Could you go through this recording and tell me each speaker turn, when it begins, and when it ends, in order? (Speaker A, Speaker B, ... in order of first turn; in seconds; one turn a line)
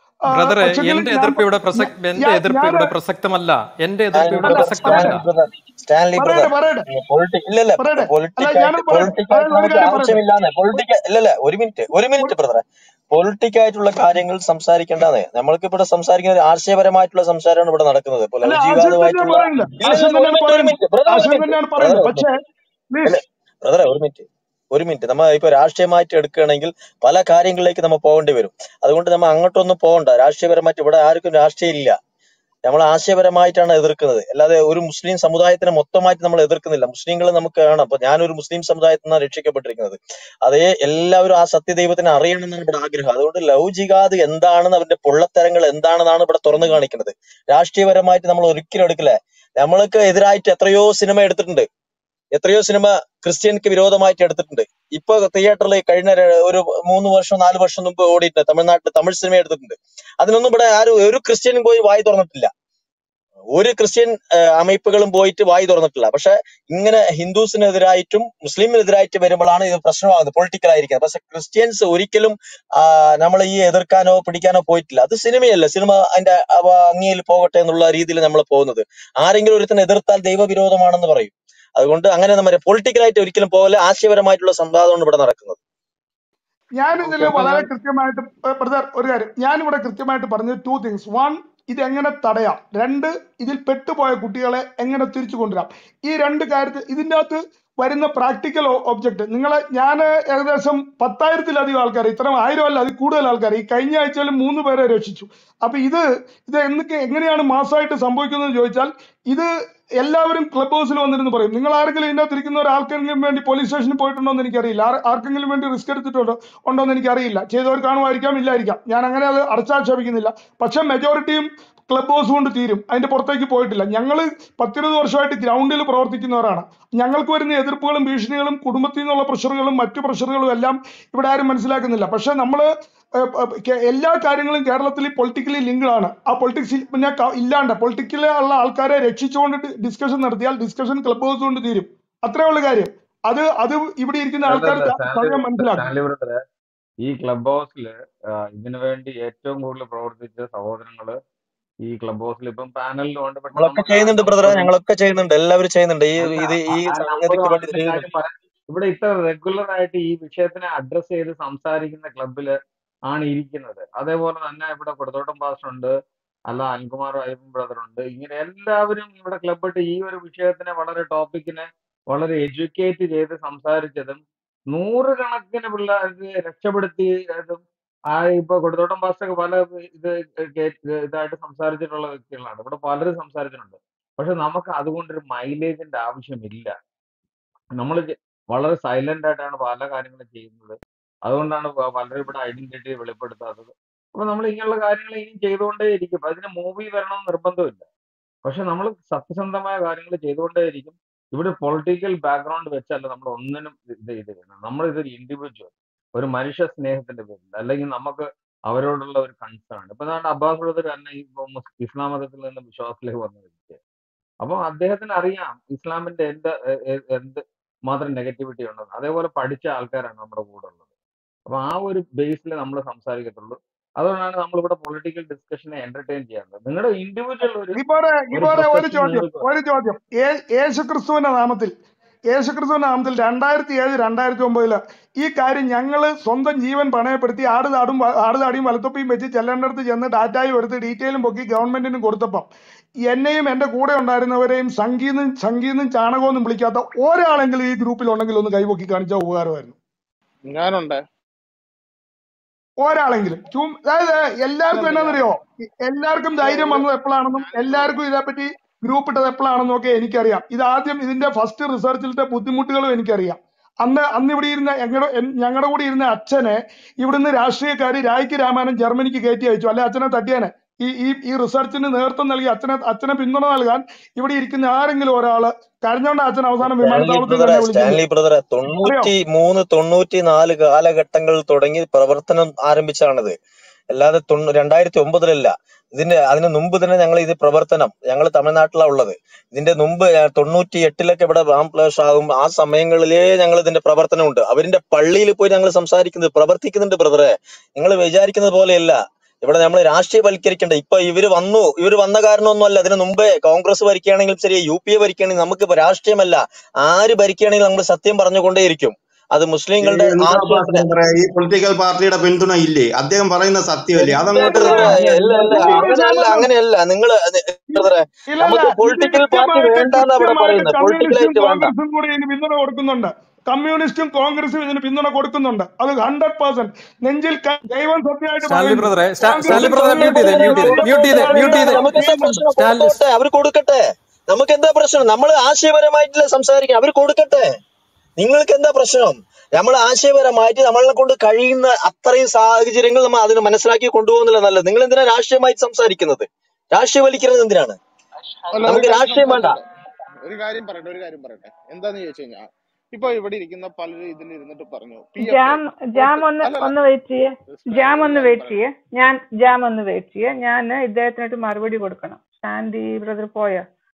Speaker A: 0.3-5.2
Speaker B: 0.3-2.9
Speaker C: 4.2-22.3
Speaker B: 4.4-5.2
Speaker B: 6.2-6.9
Speaker B: 7.8-10.2
Speaker B: 18.4-22.3
Speaker B: 22.9-23.2
Speaker C: 23.1-32.0
Speaker C: 32.6-51.7
Speaker C: 52.4-62.5
Speaker C: 63.5-85.6
Speaker B: 86.8-132.7
Speaker D: 87.0-87.7
Speaker B: 133.2-145.9
Speaker D: 144.4-146.4
Speaker D: 147.0-151.2
Speaker D: 151.9-154.7
Speaker C: 153.6-158.0
Speaker D: 156.2-162.6
Speaker D: 163.1-165.9
Speaker D: 166.5-186.7
Speaker D: 187.8-197.8
Speaker D: 198.4-213.8
Speaker D: 214.4-220.8
Speaker D: 221.5-227.8
Speaker B: 227.8-231.7
Speaker D: 228.3-229.5
Speaker B: 232.3-242.5
Speaker B: 243.1-249.8
Speaker E: 250.5-251.0
Speaker B: 252.8-278.0
Speaker E: 254.7-255.3
Speaker E: 256.4-258.0
Speaker C: 276.6-283.4
Speaker B: 278.8-279.1
Speaker C: 283.9-310.9
Speaker F: 309.8-315.9
Speaker B: 314.0-316.5
Speaker C: 314.3-321.7
Speaker B: 317.8-332.4
Speaker A: 328.4-331.9
Speaker C: 329.5-337.5
Speaker A: 332.6-333.0
Speaker C: 338.2-347.8
Speaker E: 348.3-349.6
Speaker C: 348.6-349.6
Speaker E: 350.2-356.8
Speaker G: 355.2-363.6
Speaker E: 357.5-358.6